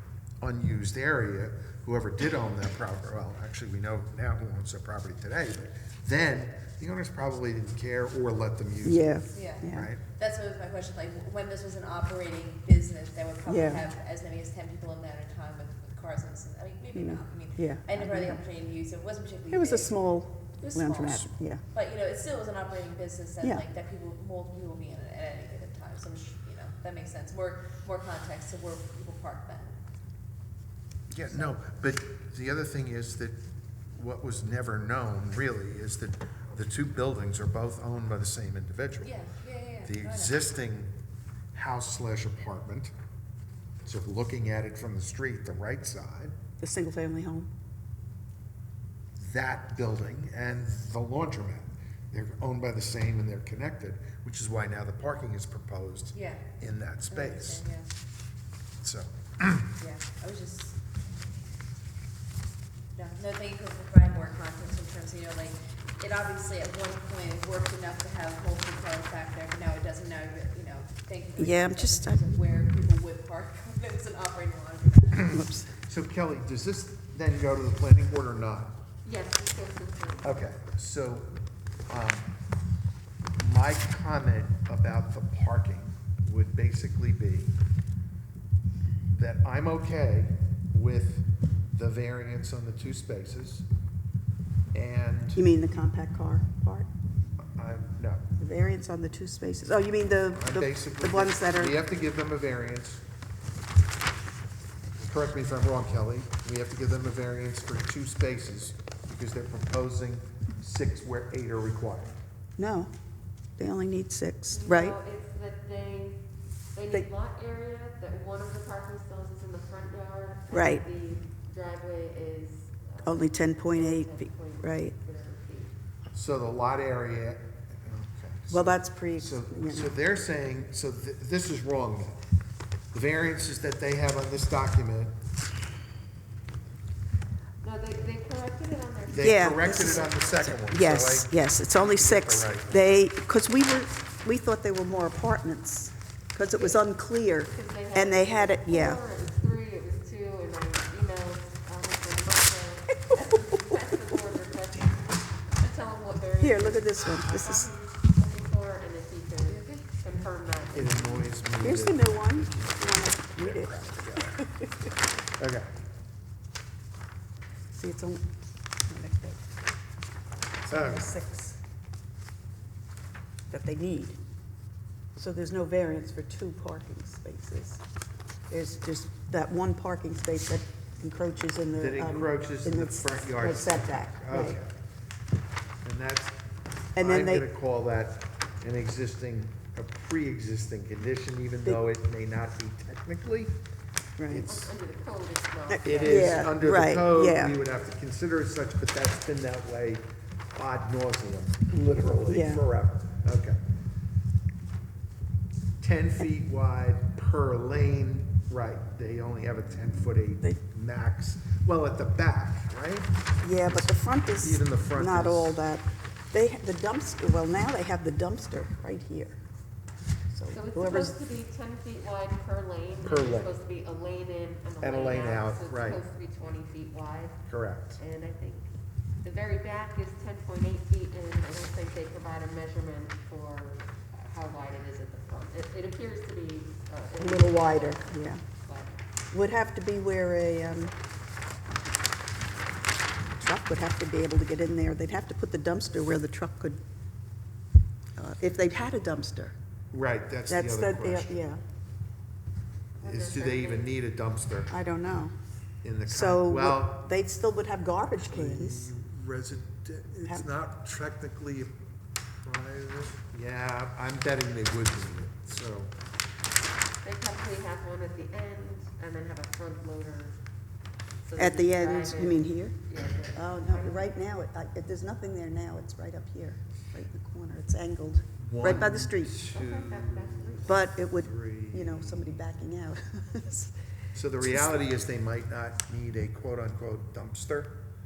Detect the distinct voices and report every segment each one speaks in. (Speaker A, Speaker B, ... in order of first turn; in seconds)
Speaker A: 0.4-10.0, 31.1-33.4, 33.9-39.1, 39.8-40.9, 41.5-42.9, 43.8-46.3, 49.1-57.6, 58.8-59.7, 75.2-78.8, 80.2-81.3, 81.9-82.3, 83.4-87.5, 89.1-93.7, 94.7-95.4, 97.5-98.2, 100.3-103.0, 105.0-112.2, 126.1-132.2, 132.9-135.1, 139.1-142.9, 160.7-164.4, 165.4-165.7, 170.7-171.1, 181.7-184.7, 185.8-186.4, 186.9-193.5, 194.2-194.7, 195.8-203.6, 205.8-213.1, 213.6-215.6, 223.0-223.5, 224.8-226.0, 227.5-228.0, 249.9-251.4, 253.0-254.8, 255.8-257.0, 258.3-261.8, 262.4-265.9, 278.4-282.4, 284.1-287.8
Speaker B: 8.8-9.9, 13.4-13.9, 16.9-18.4, 19.5-21.6, 46.6-47.5, 71.4-72.2, 75.3-75.7, 95.3-96.9, 98.4-101.8, 112.6-112.9, 113.6-115.0, 120.5-120.8, 123.0-124.9, 128.5-129.9, 139.2-149.0, 156.4-157.7, 161.6-164.7, 167.7-168.3, 168.8-169.4, 170.6-171.6, 173.5-174.2, 175.2-177.8, 178.5-184.6, 186.9-187.5, 194.2-194.5, 195.7-197.6, 202.2-202.7, 213.4-219.4, 220.3-221.2, 237.2-238.4, 239.3-240.9, 243.4-246.8, 248.2-249.5, 250.5-251.6, 254.7-255.3, 256.1-258.9, 271.4-272.8, 273.3-279.4, 280.6-283.7, 284.4-284.7
Speaker C: 9.3-19.9, 20.6-29.8, 31.3-31.6, 39.0-40.4, 56.1-56.5, 57.1-57.9, 59.8-60.8, 62.9-75.3
Speaker D: 79.0-80.3, 114.5-116.2, 116.7-125.7, 137.6-140.2, 146.5-146.9, 147.5-161.1, 194.4-196.4, 220.5-227.4, 228.0-228.7, 229.2-239.0, 253.0-253.9, 267.0-270.4, 271.2-274.1, 279.5-280.8